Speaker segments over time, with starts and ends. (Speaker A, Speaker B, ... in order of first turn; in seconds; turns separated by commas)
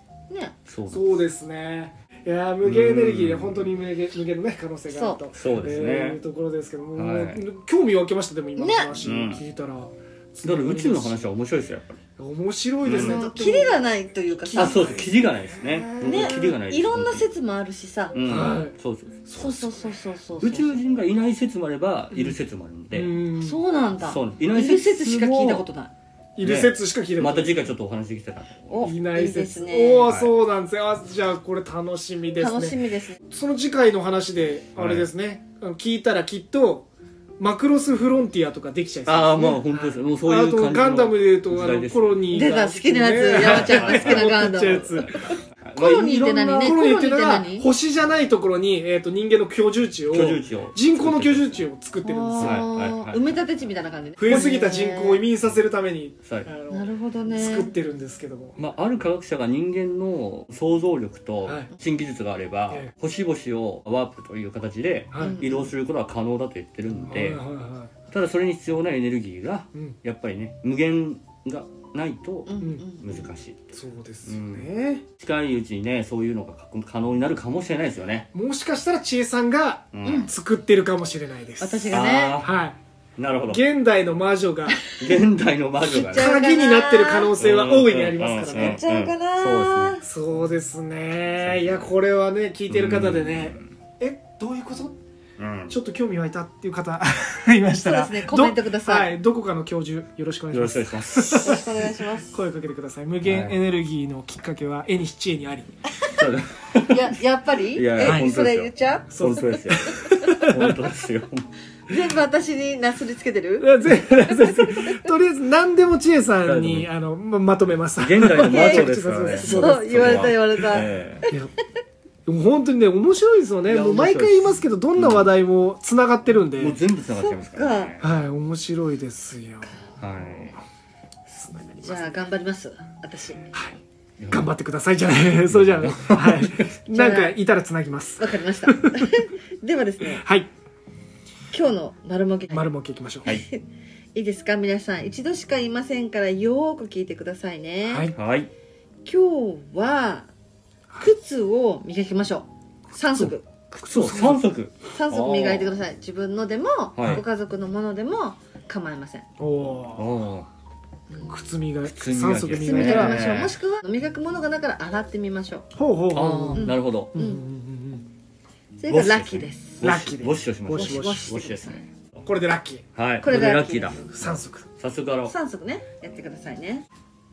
Speaker A: 0.3-0.6, Speaker B: 0.7-1.1, Speaker C: 0.9-11.3, Speaker B: 2.6-3.7, Speaker A: 4.9-5.2, Speaker B: 5.3-6.2, Speaker B: 7.0-7.5, Speaker A: 8.6-8.9, Speaker B: 9.0-9.4, Speaker B: 10.4-12.0, Speaker C: 12.2-13.8, Speaker B: 12.8-13.2, Speaker A: 12.9-15.0, Speaker C: 14.5-15.1, Speaker B: 14.5-17.3, Speaker C: 15.8-16.5, Speaker A: 16.0-18.2, Speaker B: 18.1-19.2, Speaker C: 18.2-18.7, Speaker C: 19.3-19.9, Speaker A: 19.4-20.8, Speaker B: 20.4-23.2, Speaker C: 22.9-23.6, Speaker A: 23.4-25.9, Speaker B: 24.0-25.7, Speaker C: 26.4-27.7, Speaker B: 26.4-28.9, Speaker A: 28.7-30.1, Speaker C: 28.8-36.9, Speaker B: 30.1-30.3, Speaker A: 32.4-33.2, Speaker B: 34.8-35.1, Speaker C: 37.4-45.1, Speaker B: 39.0-42.5, Speaker A: 42.3-47.7, Speaker B: 43.3-46.1, Speaker C: 45.9-52.7, Speaker B: 50.1-51.7, Speaker A: 52.0-55.2, Speaker B: 52.4-53.4, Speaker C: 54.2-58.6, Speaker B: 56.2-56.5, Speaker A: 56.7-57.7, Speaker B: 58.6-67.4, Speaker C: 61.5-61.7, Speaker C: 65.1-65.5, Speaker A: 65.2-65.6, Speaker C: 67.1-67.9, Speaker B: 68.1-78.3, Speaker A: 72.5-73.3, Speaker C: 73.7-75.0, Speaker C: 78.3-82.8, Speaker B: 79.9-80.3, Speaker A: 80.0-80.3, Speaker A: 81.6-82.4, Speaker B: 81.9-82.5, Speaker B: 83.2-83.6, Speaker C: 83.5-84.8, Speaker B: 85.0-86.3, Speaker A: 85.8-87.3, Speaker C: 86.2-88.8, Speaker B: 87.4-90.0, Speaker A: 88.4-90.0, Speaker C: 90.0-95.0, Speaker B: 91.3-91.9, Speaker B: 92.7-93.7, Speaker B: 95.4-95.7, Speaker C: 95.7-105.7, Speaker A: 97.8-99.1, Speaker B: 100.5-101.6, Speaker A: 101.3-102.4, Speaker B: 103.2-103.6, Speaker B: 106.0-107.2, Speaker A: 106.9-110.3, Speaker B: 107.7-111.5, Speaker C: 108.0-108.3, Speaker C: 109.1-110.8, Speaker A: 111.9-115.0, Speaker C: 113.6-120.5, Speaker B: 116.4-116.9, Speaker B: 118.0-121.3, Speaker A: 118.3-120.9, Speaker C: 122.3-126.8, Speaker B: 123.7-125.3, Speaker B: 126.6-128.1, Speaker A: 127.1-127.9, Speaker C: 128.0-129.7, Speaker B: 130.0-130.6, Speaker C: 131.3-132.2, Speaker A: 131.8-133.5, Speaker B: 134.2-134.5, Speaker C: 134.3-139.0, Speaker B: 135.5-136.8, Speaker A: 136.9-137.3, Speaker A: 138.2-140.2, Speaker C: 140.1-140.5, Speaker A: 141.5-142.7, Speaker C: 142.5-143.3, Speaker A: 143.2-143.6, Speaker A: 144.2-148.1, Speaker C: 147.9-148.2, Speaker B: 148.1-148.5, Speaker A: 149.1-150.3, Speaker A: 151.0-154.3, Speaker C: 153.1-154.4, Speaker B: 153.8-155.8, Speaker A: 154.9-159.3, Speaker B: 157.0-157.2, Speaker C: 159.4-160.1, Speaker B: 160.0-160.5, Speaker C: 161.2-163.3, Speaker B: 161.8-163.6, Speaker A: 162.6-165.7, Speaker C: 165.7-168.1, Speaker B: 166.1-167.2, Speaker A: 166.5-167.4, Speaker A: 168.8-169.8, Speaker B: 168.9-172.0, Speaker C: 169.8-171.3, Speaker A: 170.7-171.8, Speaker C: 172.2-172.8, Speaker B: 172.9-174.1, Speaker A: 173.2-174.0, Speaker C: 174.0-174.7, Speaker B: 174.8-175.3, Speaker A: 175.3-176.9